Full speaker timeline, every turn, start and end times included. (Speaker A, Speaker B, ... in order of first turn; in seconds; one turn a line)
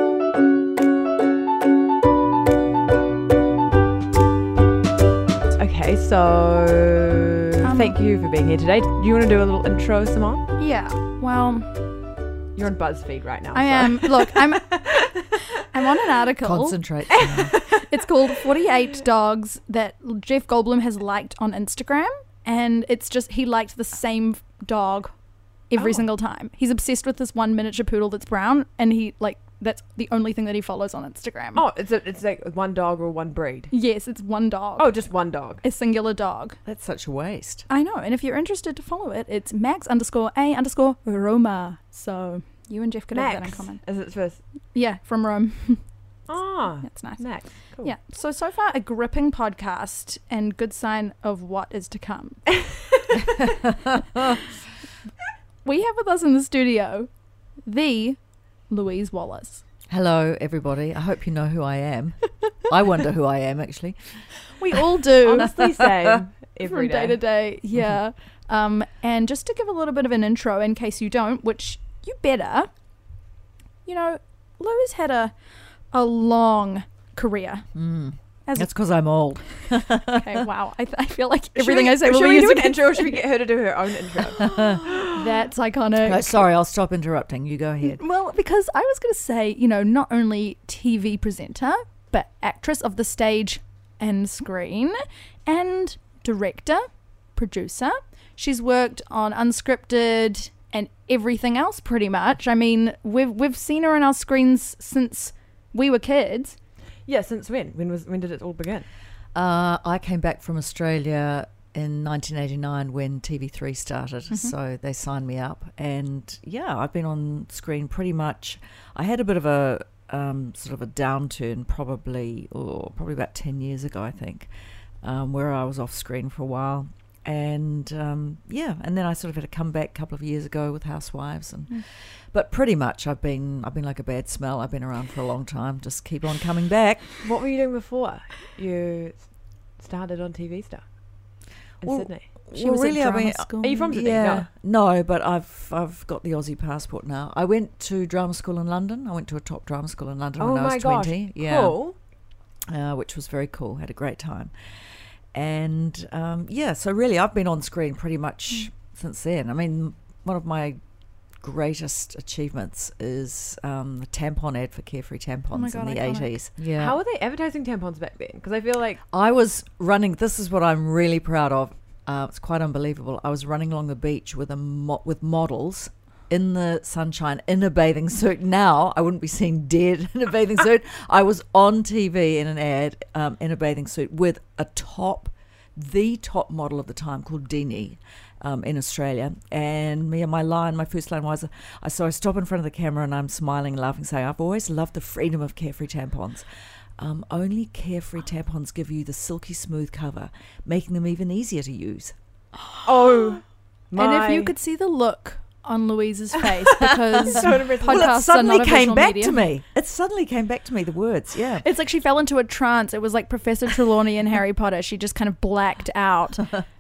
Speaker A: 5.5-10.5
Speaker B: 7.6-8.0
Speaker B: 10.6-11.8
Speaker A: 12.5-15.4
Speaker B: 13.5-31.6
Speaker C: 16.4-17.6
Speaker A: 17.2-17.9
Speaker A: 25.8-26.1
Speaker A: 31.6-33.8
Speaker B: 33.7-36.6
Speaker A: 34.8-35.6
Speaker C: 36.6-37.7
Speaker B: 37.7-44.1
Speaker A: 43.1-44.4
Speaker B: 44.7-52.7
Speaker A: 46.3-48.0
Speaker B: 55.6-59.6
Speaker C: 59.9-64.5
Speaker B: 64.5-65.8
Speaker A: 65.2-67.2
Speaker B: 66.6-72.8
Speaker C: 67.7-68.0
Speaker B: 73.8-79.4
Speaker C: 77.7-80.2
Speaker B: 80.1-83.3
Speaker A: 81.5-85.1
Speaker B: 84.4-86.4
Speaker C: 84.5-84.8
Speaker C: 86.0-88.0
Speaker B: 87.8-106.6
Speaker A: 107.0-108.9
Speaker C: 109.3-124.5
Speaker C: 125.0-137.2
Speaker A: 137.2-142.3
Speaker C: 141.8-152.1
Speaker B: 142.5-143.9
Speaker A: 143.6-144.5
Speaker A: 150.4-152.0
Speaker C: 152.7-167.0
Speaker B: 165.5-166.3
Speaker A: 166.7-169.0
Speaker C: 169.1-202.2
Speaker A: 202.8-204.5
Speaker B: 203.9-209.4
Speaker A: 207.3-208.1
Speaker C: 207.4-211.7
Speaker B: 211.6-216.5